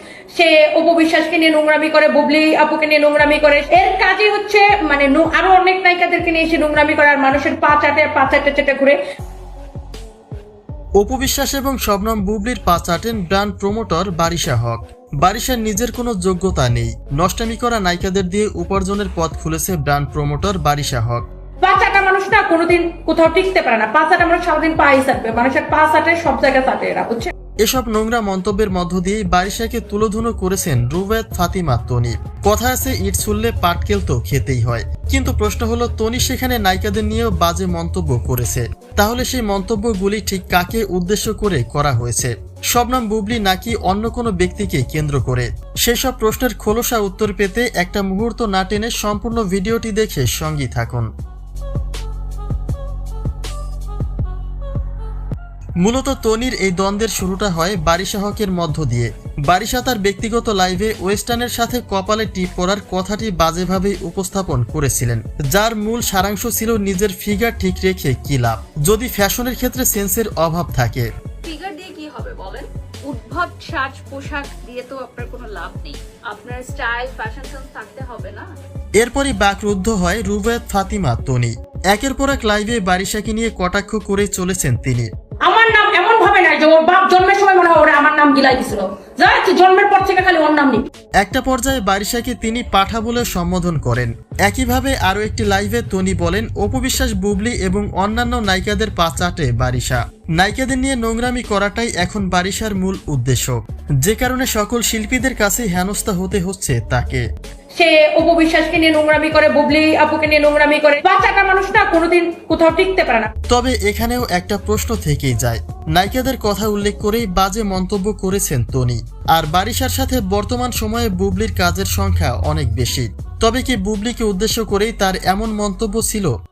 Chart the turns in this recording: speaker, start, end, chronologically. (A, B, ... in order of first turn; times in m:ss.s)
0:00.3-0:09.0 A
0:11.0-0:21.2 B
0:21.6-0:27.3 A
0:27.6-0:51.1 B
0:55.8-1:11.0 B
1:11.4-1:18.4 C
1:19.0-1:25.1 B
1:25.4-1:30.8 A
1:31.2-1:47.2 B
1:47.8-1:53.3 A
1:53.5-2:06.3 B